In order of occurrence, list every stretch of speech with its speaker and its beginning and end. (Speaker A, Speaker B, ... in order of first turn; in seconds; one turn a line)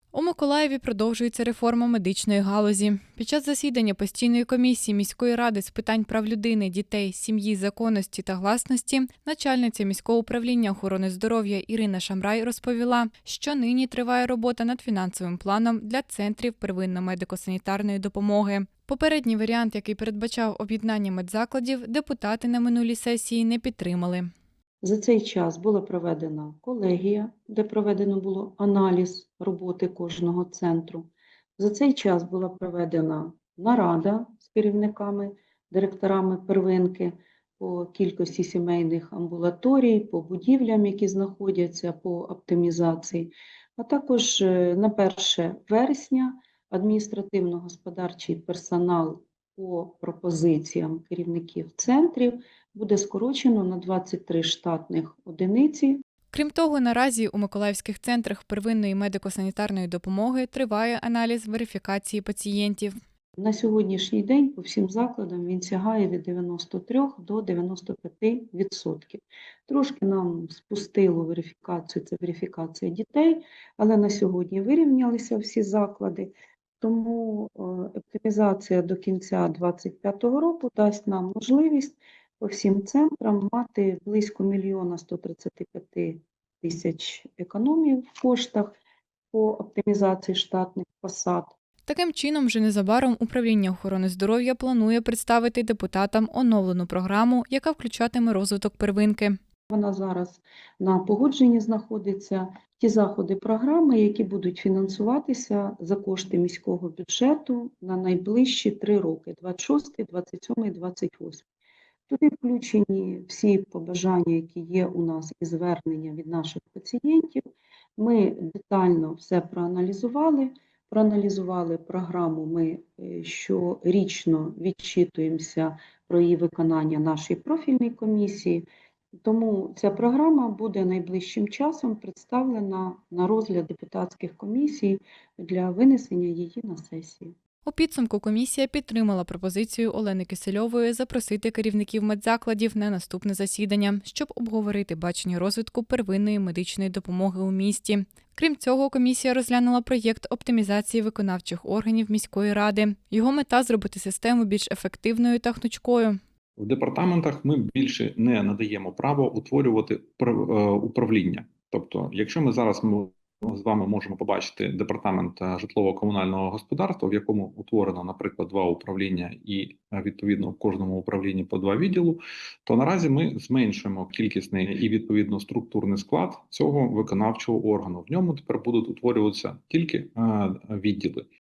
Speaker A: 0.1-24.3
Speaker B: 24.8-56.0
Speaker A: 56.3-62.9
Speaker B: 63.4-88.8
Speaker B: 89.3-91.5
Speaker A: 91.9-99.4
Speaker B: 99.7-111.4
Speaker B: 112.1-117.4
Speaker B: 118.0-128.7
Speaker B: 129.2-137.3
Speaker A: 137.7-156.2
Speaker C: 156.6-181.2